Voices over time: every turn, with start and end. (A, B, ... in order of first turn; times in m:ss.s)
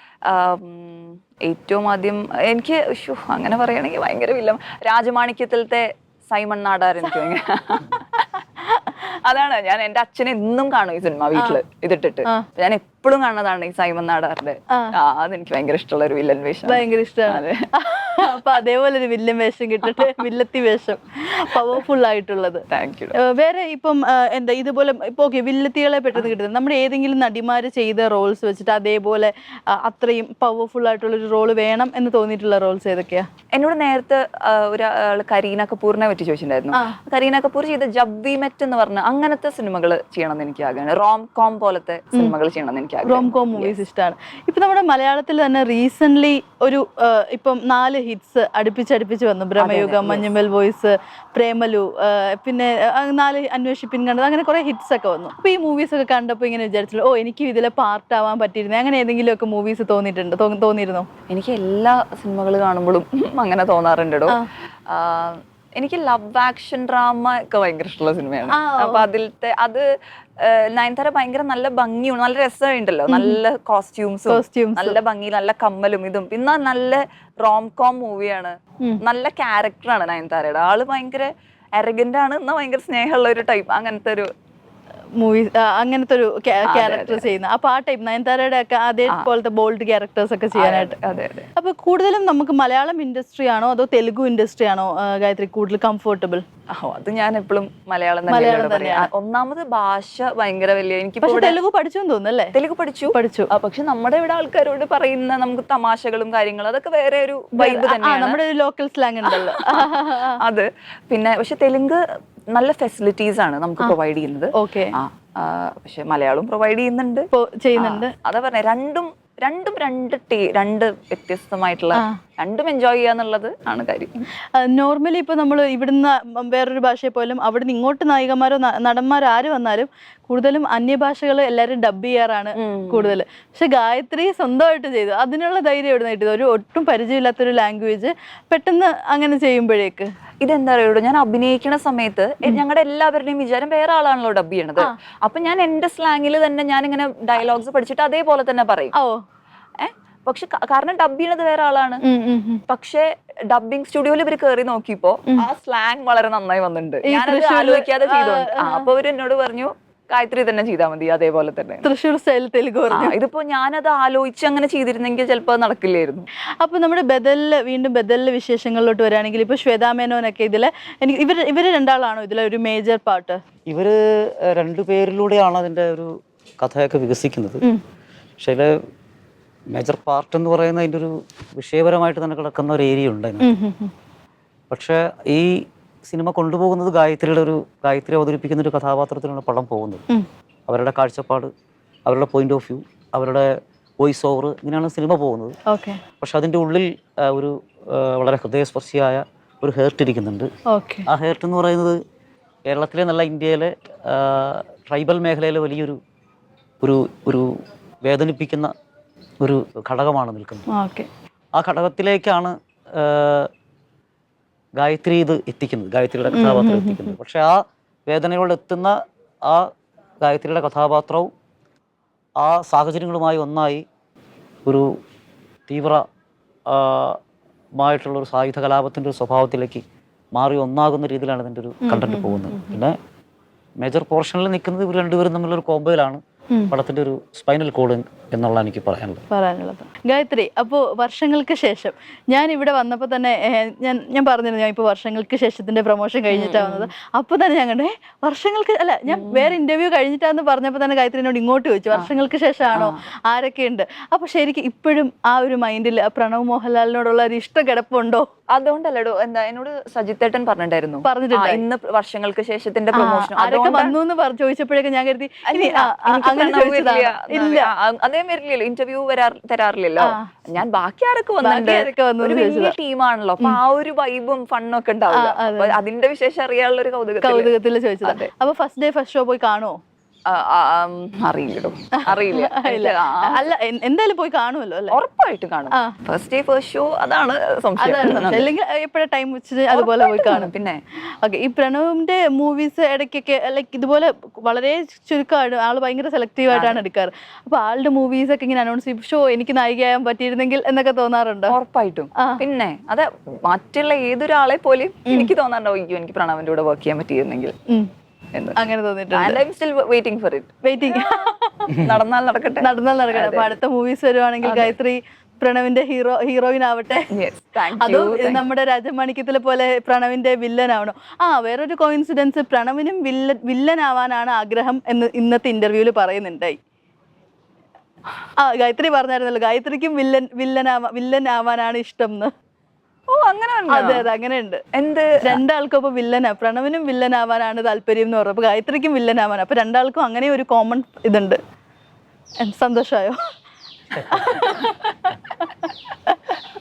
0:00.3-0:08.3 A
0:09.2-0:17.6 A
0:16.7-0:22.6 B
0:19.8-0:20.2 A
0:22.7-0:23.1 A
0:23.1-0:33.2 B
0:33.5-0:43.8 A
0:43.0-1:01.1 B
0:49.6-0:50.3 A
1:01.3-1:09.8 A
1:08.5-1:09.0 B
1:10.4-1:24.3 A
1:13.1-1:13.4 B
1:14.3-1:15.0 B
1:25.2-1:30.9 B
1:26.6-1:27.3 A
1:30.5-1:31.5 A
1:31.6-1:36.4 B
1:36.7-1:41.6 A
1:38.3-1:39.1 B
1:41.2-1:42.5 B
1:42.5-1:48.4 A
1:43.1-1:43.5 B
1:47.6-1:50.4 B
1:49.2-1:52.0 A
1:52.5-2:04.2 A
1:54.6-1:54.9 B
1:57.3-1:58.1 B
2:04.5-2:20.1 B
2:12.6-2:13.1 A
2:20.4-2:28.9 A
2:28.9-2:29.2 B
2:29.8-2:32.0 A
2:32.0-2:32.6 B
2:32.7-2:41.9 A
2:37.0-2:38.9 B
2:41.8-2:43.1 B
2:42.9-2:46.2 A
2:46.6-2:53.4 B
2:53.7-2:57.6 C
2:58.4-2:58.7 C
2:59.7-3:03.5 C
3:03.4-3:03.9 B
3:04.7-3:10.0 C
3:10.7-3:11.5 C
3:12.0-3:15.5 C
3:15.7-3:16.0 B
3:16.2-3:20.5 C
3:20.7-3:21.1 B
3:21.1-3:22.0 C
3:22.7-3:26.0 C
3:26.8-3:27.5 C
3:28.0-3:28.7 C
3:29.4-3:30.6 C
3:30.7-3:31.1 B
3:31.6-3:33.5 C
3:34.8-3:39.7 C
3:36.3-3:37.1 B
3:40.2-3:41.3 C
3:42.4-3:43.8 C
3:44.6-3:44.9 C
3:45.7-3:46.0 C
3:46.7-3:47.2 C
3:47.8-3:49.8 C
3:50.3-3:52.9 C
3:51.8-3:52.8 B
3:53.8-3:59.2 C
3:59.3-4:18.2 B
4:06.3-4:06.9 A
4:09.1-4:09.5 A
4:12.7-4:13.0 A
4:18.5-4:24.0 A
4:21.0-4:21.6 B
4:22.9-4:27.7 B
4:25.5-4:37.5 A
4:30.0-4:30.3 B
4:31.4-4:32.7 B
4:35.1-4:35.8 B
4:37.2-4:39.8 B
4:38.0-4:38.3 A
4:40.3-4:43.4 A
4:42.0-4:45.0 B
4:44.9-4:48.5 A
4:47.8-4:50.5 B
4:49.7-4:50.8 A
4:51.2-5:01.5 B
4:56.5-4:56.8 A
5:01.5-5:07.5 A
5:02.2-5:02.4 B
5:05.1-5:05.3 B
5:08.6-5:09.4 B
5:09.1-5:13.6 A
5:10.6-5:11.8 B
5:12.6-5:17.1 B
5:14.4-5:14.7 A
5:17.1-5:18.4 A
5:17.8-5:26.6 B
5:28.4-5:32.3 B
5:33.1-5:34.0 A
5:33.7-5:34.6 B
5:34.7-5:35.4 A
5:35.2-5:41.4 B
5:42.4-5:43.2 B
5:44.0-5:44.7 B
5:44.2-5:45.1 A